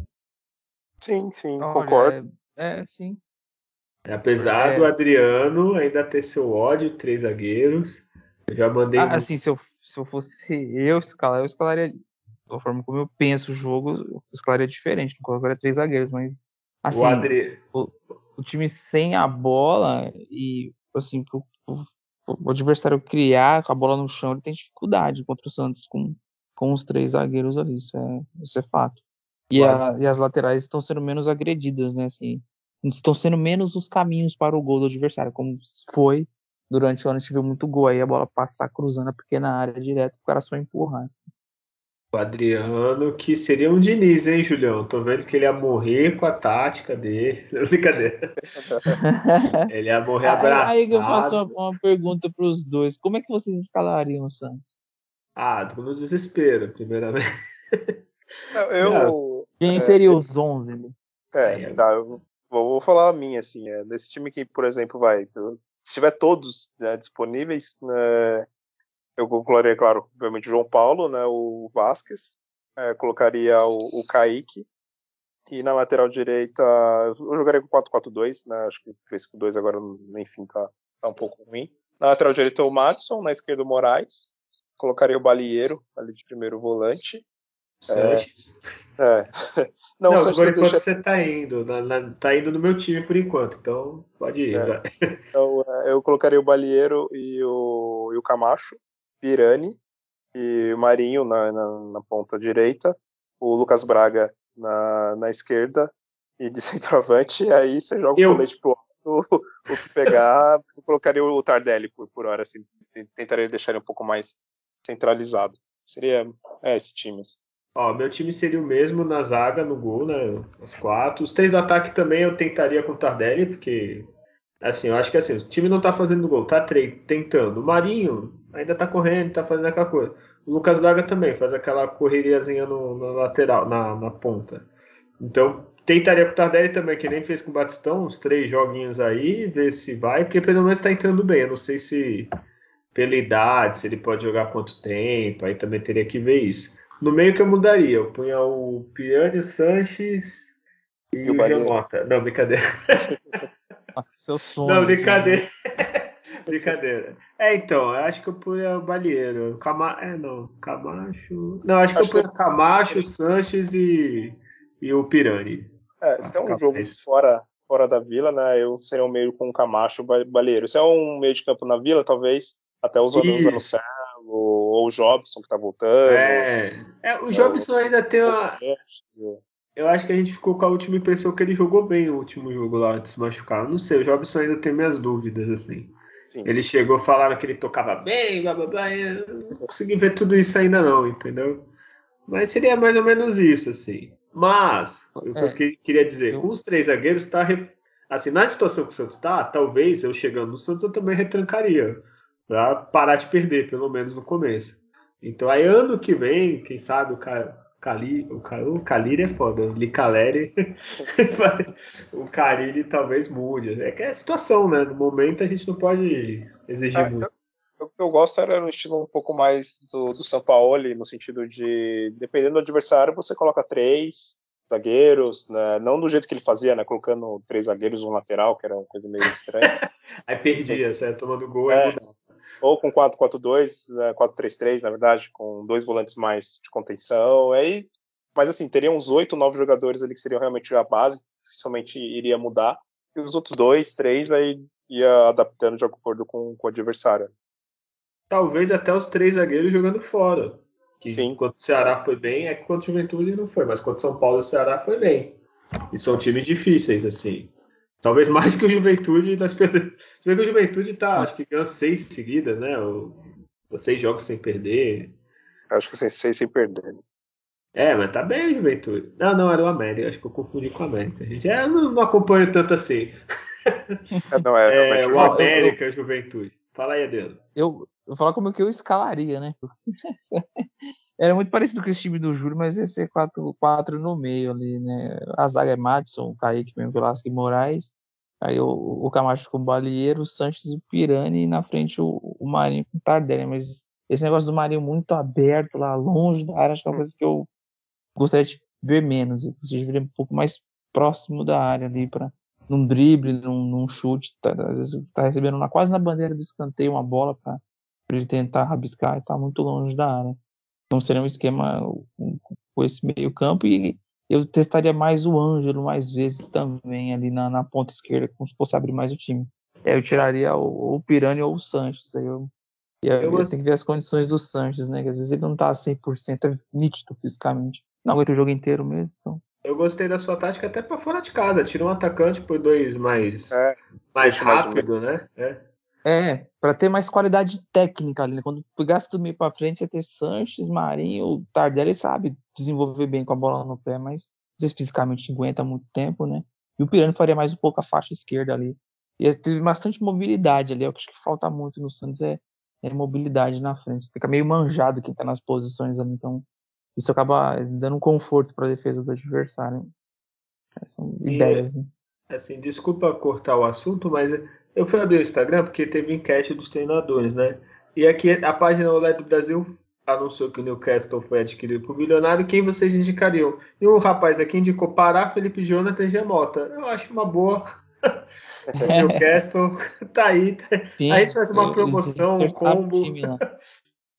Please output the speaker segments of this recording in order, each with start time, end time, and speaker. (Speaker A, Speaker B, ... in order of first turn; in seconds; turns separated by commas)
Speaker A: 1.0-2.1, Speaker B: 1.6-3.2, Speaker C: 4.0-9.3, Speaker B: 4.4-4.9, Speaker B: 8.9-41.1, Speaker C: 16.9-17.6, Speaker C: 29.5-29.8, Speaker C: 42.1-48.3, Speaker A: 48.5-48.8, Speaker B: 49.0-49.7, Speaker C: 49.7-51.5, Speaker B: 50.2-54.7, Speaker C: 55.4-58.0, Speaker A: 58.5-60.2, Speaker C: 58.8-59.1, Speaker B: 59.6-60.9, Speaker A: 61.3-68.5, Speaker C: 61.4-61.8, Speaker A: 69.2-74.7, Speaker A: 75.5-87.2, Speaker C: 87.8-88.6, Speaker A: 87.9-88.2, Speaker A: 89.0-90.8, Speaker C: 90.1-95.2, Speaker A: 95.3-99.8, Speaker A: 100.3-117.4, Speaker C: 108.2-108.4, Speaker C: 117.7-124.1, Speaker C: 124.6-134.7, Speaker C: 135.2-142.3, Speaker C: 142.9-150.4, Speaker C: 151.1-153.4, Speaker A: 151.2-151.7, Speaker B: 153.9-155.4, Speaker C: 154.6-165.7, Speaker A: 156.5-156.7, Speaker A: 161.9-162.3, Speaker A: 162.9-163.3, Speaker A: 166.0-176.5, Speaker C: 166.2-167.0, Speaker C: 173.1-173.6, Speaker C: 176.1-178.6, Speaker A: 177.3-177.7, Speaker A: 178.2-179.4, Speaker C: 179.8-191.7, Speaker A: 186.3-186.6, Speaker C: 192.3-217.3, Speaker B: 195.2-195.6, Speaker A: 216.9-229.7, Speaker C: 229.6-232.2, Speaker A: 230.6-231.0, Speaker A: 231.7-231.9, Speaker A: 232.6-247.3, Speaker C: 248.3-255.4, Speaker C: 255.9-257.5, Speaker C: 258.0-265.1, Speaker A: 265.7-267.0, Speaker C: 267.7-274.0, Speaker A: 274.3-275.8, Speaker C: 274.7-277.4, Speaker B: 275.1-275.8, Speaker B: 277.6-280.6, Speaker B: 281.2-297.5, Speaker B: 298.1-310.4, Speaker B: 310.9-322.5, Speaker B: 323.0-329.4, Speaker C: 323.2-323.6, Speaker C: 329.6-333.6, Speaker A: 333.5-334.8, Speaker C: 334.1-335.6, Speaker B: 336.0-359.9, Speaker B: 360.8-361.9, Speaker C: 361.2-361.6, Speaker C: 362.3-378.1, Speaker B: 378.8-379.3, Speaker C: 378.8-383.5, Speaker B: 381.0-383.4